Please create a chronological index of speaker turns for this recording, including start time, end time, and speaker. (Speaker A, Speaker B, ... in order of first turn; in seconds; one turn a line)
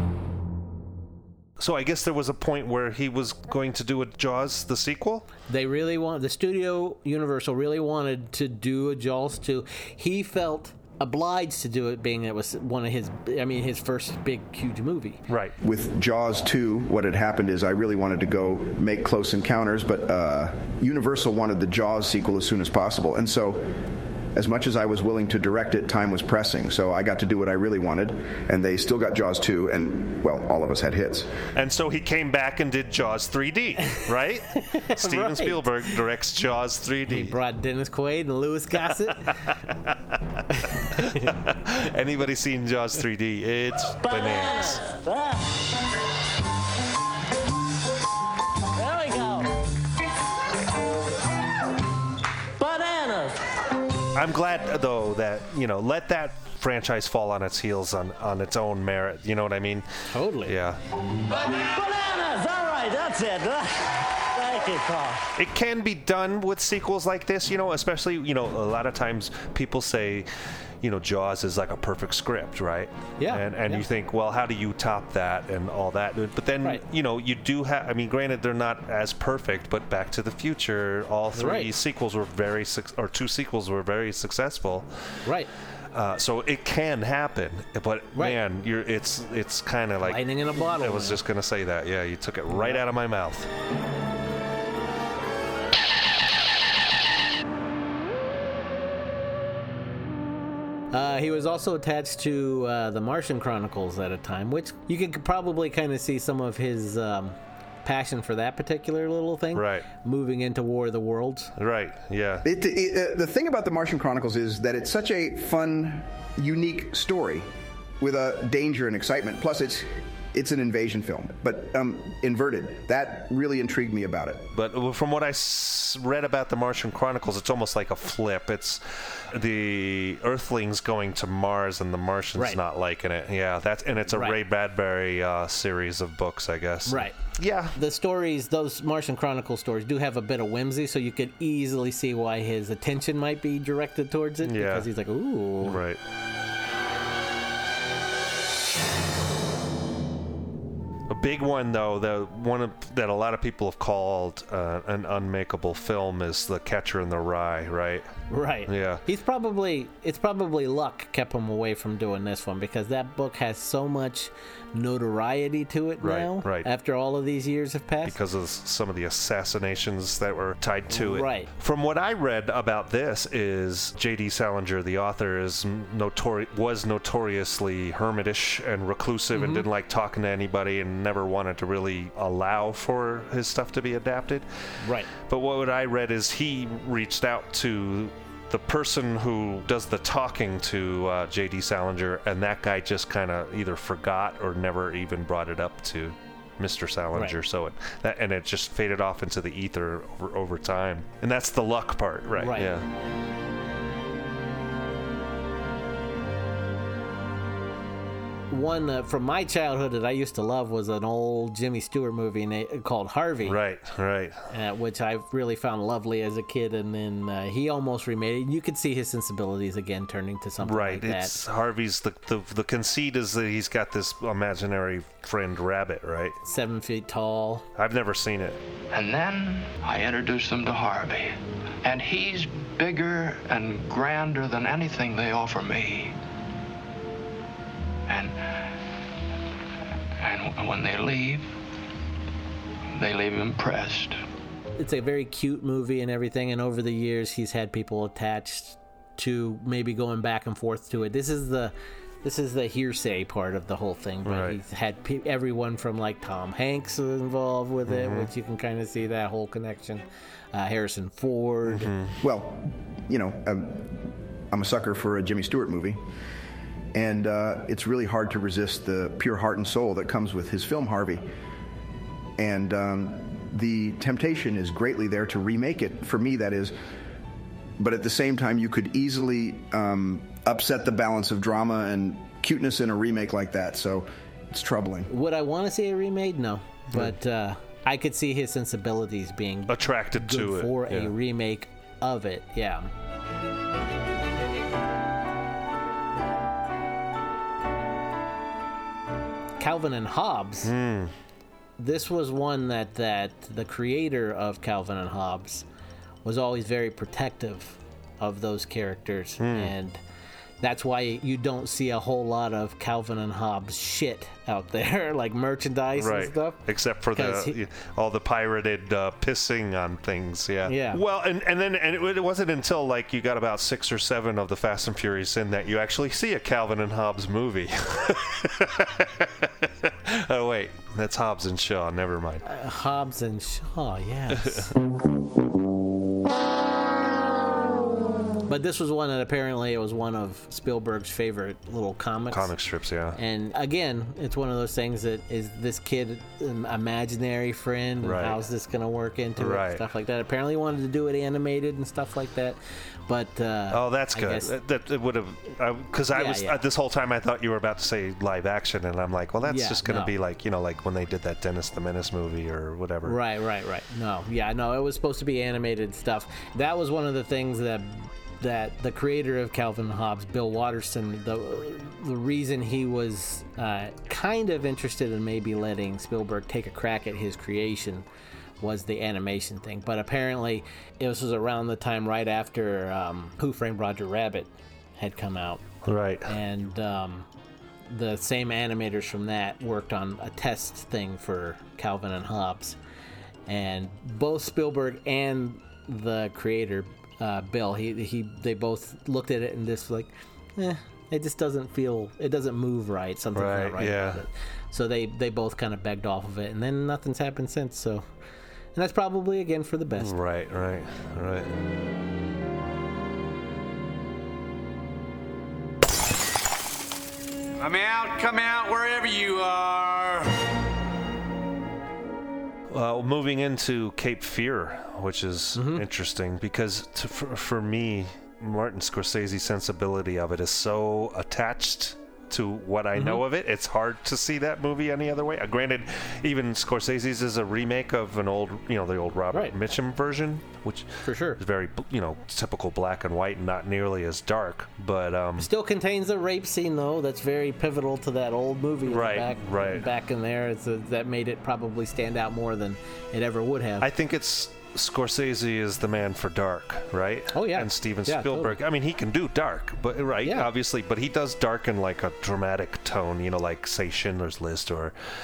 Speaker A: 1.6-5.3
Speaker B: 5.5-15.2
Speaker A: 15.3-15.5
Speaker C: 15.6-23.7
Speaker C: 24.3-31.3
Speaker A: 31.5-37.3
Speaker B: 34.6-35.7
Speaker B: 37.1-39.4
Speaker B: 40.5-41.4
Speaker A: 41.0-44.8
Speaker D: 44.0-45.4
Speaker D: 48.7-49.5
Speaker D: 52.6-53.4
Speaker A: 54.1-59.9
Speaker B: 60.1-60.5
Speaker A: 60.4-60.8
Speaker D: 61.5-65.2
Speaker A: 65.3-70.3
Speaker A: 70.8-84.9
Speaker B: 73.2-73.8
Speaker B: 81.3-81.7
Speaker B: 85.2-85.5
Speaker A: 85.9-93.5
Speaker B: 90.0-91.2
Speaker B: 92.5-92.8
Speaker B: 100.9-111.5
Speaker A: 109.5-109.8
Speaker A: 111.6-112.4
Speaker C: 112.4-117.5
Speaker C: 118.0-124.5
Speaker A: 124.5-137.8
Speaker B: 136.9-137.2
Speaker B: 137.7-145.8
Speaker A: 144.4-144.9
Speaker A: 145.6-146.0
Speaker A: 151.1-158.1
Speaker B: 158.3-168.1
Speaker A: 158.7-159.0
Speaker A: 166.0-166.7
Speaker A: 168.1-184.4
Speaker B: 170.9-171.5
Speaker B: 179.3-179.6
Speaker B: 184.8-185.1
Speaker A: 185.1-202.8
Speaker B: 202.4-202.7
Speaker B: 208.5-213.6
Speaker A: 213.4-214.4
Speaker B: 214.5-221.3
Speaker A: 220.6-226.3
Speaker B: 226.4-227.7
Speaker A: 227.8-228.6
Speaker E: 228.9-236.1
Speaker E: 238.1-238.4
Speaker E: 240.2-241.5
Speaker E: 242.9-244.2
Speaker B: 244.8-261.9
Speaker A: 254.2-254.6
Speaker A: 257.9-258.3
Speaker A: 261.6-262.1
Speaker C: 262.2-266.0
Speaker C: 266.9-271.3
Speaker C: 272.4-276.7
Speaker C: 277.8-285.1
Speaker B: 285.1-292.9
Speaker A: 289.7-291.1
Speaker B: 299.6-300.7
Speaker A: 300.6-301.1
Speaker B: 301.8-305.6
Speaker B: 306.2-310.0
Speaker A: 309.4-309.7
Speaker B: 310.6-316.6
Speaker A: 316.0-332.4
Speaker B: 317.1-317.5
Speaker B: 320.7-321.0
Speaker B: 332.4-334.7
Speaker A: 334.3-334.7
Speaker B: 338.5-342.5
Speaker A: 342.3-343.2
Speaker B: 343.1-354.5
Speaker A: 348.0-348.4
Speaker A: 349.4-349.8
Speaker A: 353.7-363.2
Speaker B: 356.1-356.6
Speaker B: 359.4-360.1
Speaker B: 363.1-378.0
Speaker B: 378.6-385.6
Speaker A: 385.9-386.3
Speaker B: 386.3-387.3
Speaker B: 387.9-392.8
Speaker B: 393.5-408.1
Speaker A: 403.3-404.2
Speaker B: 408.7-410.1
Speaker A: 410.0-411.5
Speaker F: 417.6-420.3
Speaker A: 422.7-445.5
Speaker B: 425.5-425.8
Speaker B: 432.9-433.2
Speaker B: 441.0-441.4
Speaker B: 445.4-453.9
Speaker A: 448.9-449.9
Speaker A: 453.8-464.9
Speaker B: 457.3-458.6